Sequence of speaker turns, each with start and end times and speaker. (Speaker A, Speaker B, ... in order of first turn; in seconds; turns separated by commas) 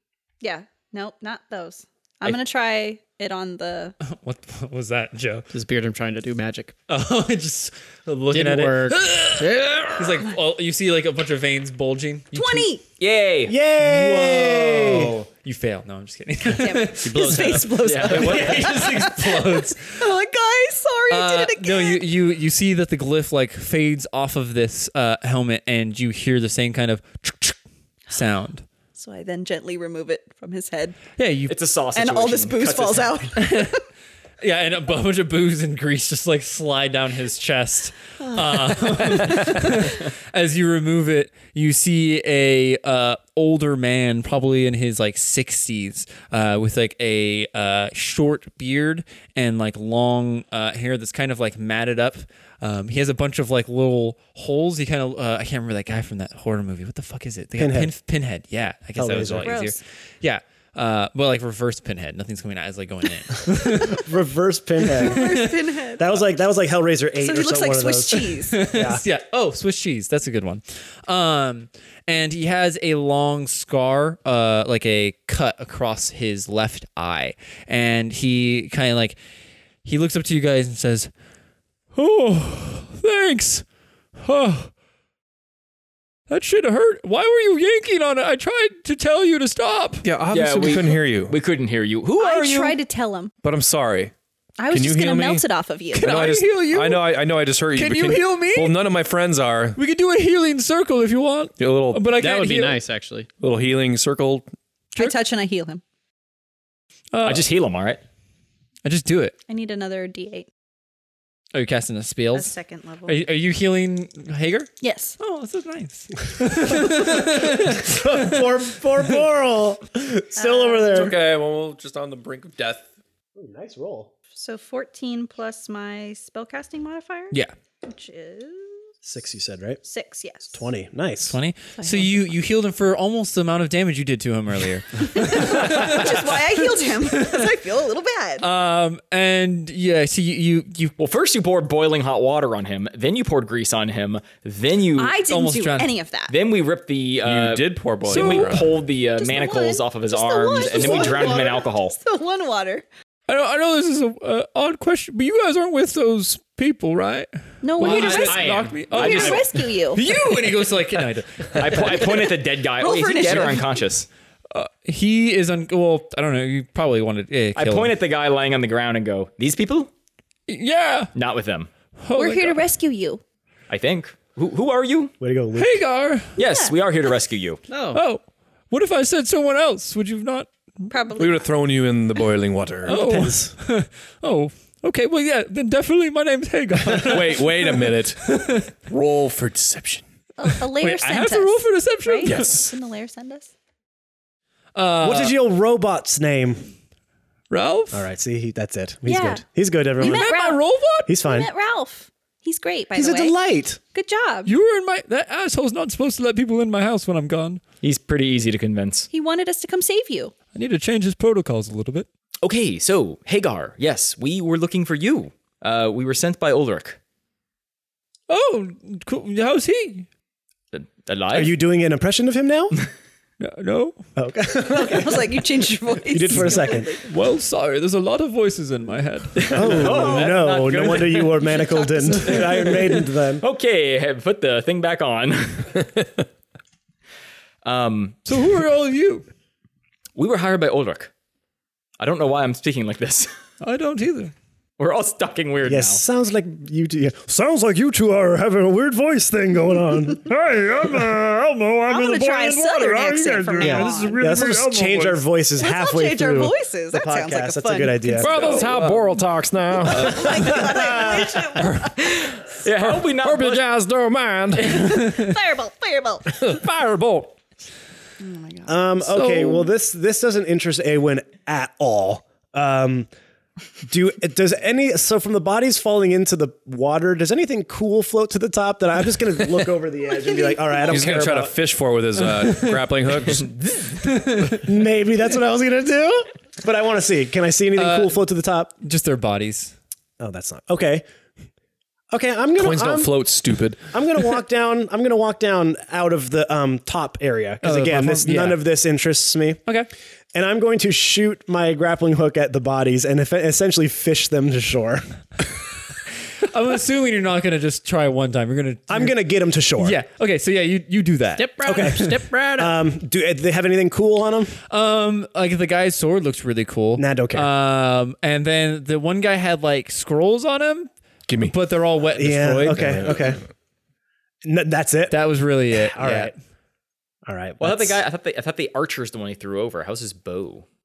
Speaker A: 0.4-4.0, Speaker B: 4.0-5.5, Speaker C: 5.5-6.7, Speaker B: 6.9-12.7, Speaker C: 8.3-10.0, Speaker A: 12.3-12.8, Speaker D: 13.0-13.5, Speaker E: 13.4-15.1, Speaker B: 13.8-17.5, Speaker A: 16.4-22.0, Speaker C: 17.0-18.1, Speaker D: 17.8-18.7, Speaker B: 18.0-20.0, Speaker B: 21.1-27.6, Speaker B: 28.1-28.6, Speaker A: 28.9-31.1, Speaker B: 31.1-31.6, Speaker D: 31.5-33.3, Speaker A: 31.9-33.8, Speaker B: 33.4-33.8, Speaker B: 34.4-64.1, Speaker A: 38.5-39.3, Speaker F: 39.1-39.5, Speaker E: 57.6-57.9, Speaker E: 59.0-59.6, Speaker A: 59.4-59.8, Speaker E: 63.7-65.3, Speaker B: 64.9-65.6, Speaker A: 65.0-66.2, Speaker E: 66.0-69.0, Speaker A: 67.2-68.7, Speaker B: 68.5-79.2, Speaker B: 79.8-81.1, Speaker B: 81.9-83.6, Speaker B: 84.2-84.7, Speaker B: 86.3-90.1, Speaker F: 90.0-91.3, Speaker D: 90.3-92.8, Speaker A: 92.2-93.3, Speaker F: 93.4-94.1, Speaker A: 94.6-96.1, Speaker F: 94.7-95.4, Speaker B: 95.9-97.2, Speaker F: 96.0-99.8, Speaker B: 97.7-98.8, Speaker B: 99.8-102.8, Speaker F: 101.6-102.1, Speaker C: 102.1-103.3, Speaker F: 103.4-104.5, Speaker A: 104.9-105.8, Speaker B: 107.1-107.5, Speaker D: 107.2-108.0, Speaker B: 108.8-109.3, Speaker A: 109.5-110.5, Speaker B: 111.5-112.5, Speaker A: 112.3-113.2, Speaker B: 113.1-118.4, Speaker A: 114.8-115.2, Speaker E: 117.0-121.1, Speaker A: 120.3-121.1, Speaker F: 120.9-122.9, Speaker E: 123.3-124.1, Speaker A: 124.3-128.9, Speaker E: 129.0-129.8, Speaker A: 129.8-130.6, Speaker E: 130.5-131.3, Speaker B: 131.3-137.5, Speaker A: 131.8-132.1, Speaker A: 135.1-138.5, Speaker B: 138.4-140.9, Speaker D: 141.0-145.2, Speaker A: 145.0-146.3, Speaker B: 145.2-145.9, Speaker D: 146.3-151.9, Speaker F: 147.2-148.7, Speaker B: 148.1-148.6, Speaker A: 149.2-152.8, Speaker F: 150.7-151.2, Speaker B: 153.3-162.2, Speaker A: 157.6-160.0, Speaker D: 157.8-159.4, Speaker D: 161.5-164.1, Speaker A: 162.0-163.8, Speaker B: 164.5-167.9, Speaker D: 167.5-169.9, Speaker B: 170.5-171.1, Speaker D: 171.1-171.7, Speaker B: 172.0-172.6, Speaker A: 172.2-173.2, Speaker D: 173.7-175.1, Speaker E: 175.2-175.8, Speaker B: 175.5-176.3, Speaker D: 176.3-177.6, Speaker A: 176.4-176.7, Speaker C: 177.7-178.0, Speaker B: 177.9-181.0, Speaker A: 180.9-181.5, Speaker F: 181.2-183.0, Speaker B: 182.8-188.7, Speaker E: 182.9-183.5, Speaker F: 186.9-188.2, Speaker F: 188.8-190.1, Speaker A: 190.4-193.5, Speaker B: 190.4-192.5, Speaker F: 192.2-192.7, Speaker B: 194.7-195.3, Speaker E: 195.0-196.7, Speaker B: 197.5-198.0, Speaker E: 197.9-200.3, Speaker A: 199.1-199.4, Speaker B: 200.0-201.1, Speaker A: 200.0-200.6, Speaker E: 201.1-201.5, Speaker A: 201.2-203.3, Speaker E: 202.9-203.8, Speaker A: 203.9-204.5, Speaker B: 204.4-207.6, Speaker D: 207.8-209.1, Speaker A: 209.1-210.3, Speaker B: 210.5-212.1, Speaker D: 212.4-217.0, Speaker B: 218.3-220.1, Speaker D: 220.7-221.6, Speaker E: 221.3-222.8, Speaker B: 223.4-224.1, Speaker E: 224.2-225.4, Speaker A: 224.7-227.0, Speaker E: 226.1-226.9, Speaker B: 226.4-230.1, Speaker D: 229.4-231.6, Speaker E: 229.5-233.4, Speaker A: 231.5-232.6, Speaker D: 232.3-232.8, Speaker D: 233.4-235.8, Speaker D: 237.6-238.3, Speaker B: 238.3-239.3, Speaker D: 240.2-241.1, Speaker D: 242.0-243.3, Speaker B: 243.6-244.3, Speaker D: 244.8-246.0, Speaker E: 245.6-250.3, Speaker F: 250.3-255.2, Speaker A: 251.9-254.2, Speaker E: 253.6-258.5, Speaker A: 255.6-258.6, Speaker F: 258.2-265.1, Speaker A: 259.8-262.0, Speaker D: 262.6-263.7, Speaker A: 264.6-266.6, Speaker B: 265.0-265.3, Speaker F: 266.3-267.4, Speaker A: 268.2-268.8, Speaker E: 268.6-273.1, Speaker B: 269.0-269.7, Speaker E: 273.9-281.6, Speaker A: 280.2-281.0, Speaker F: 280.9-283.5, Speaker B: 282.3-284.7, Speaker E: 284.6-288.7, Speaker B: 287.8-288.2, Speaker B: 288.8-289.7, Speaker E: 290.2-291.0, Speaker E: 292.1-293.1, Speaker F: 292.6-293.9, Speaker E: 293.9-299.6, Speaker B: 297.6-298.6, Speaker E: 300.3-305.1, Speaker B: 306.4-309.1, Speaker E: 308.9-310.0, Speaker B: 309.8-311.5, Speaker C: 311.4-312.7, Speaker E: 311.6-314.6, Speaker B: 314.7-323.2, Speaker E: 317.0-317.5, Speaker F: 321.3-321.5, Speaker E: 322.1-323.4, Speaker E: 324.4-326.3, Speaker B: 325.1-326.3, Speaker E: 327.2-328.0, Speaker D: 327.6-330.6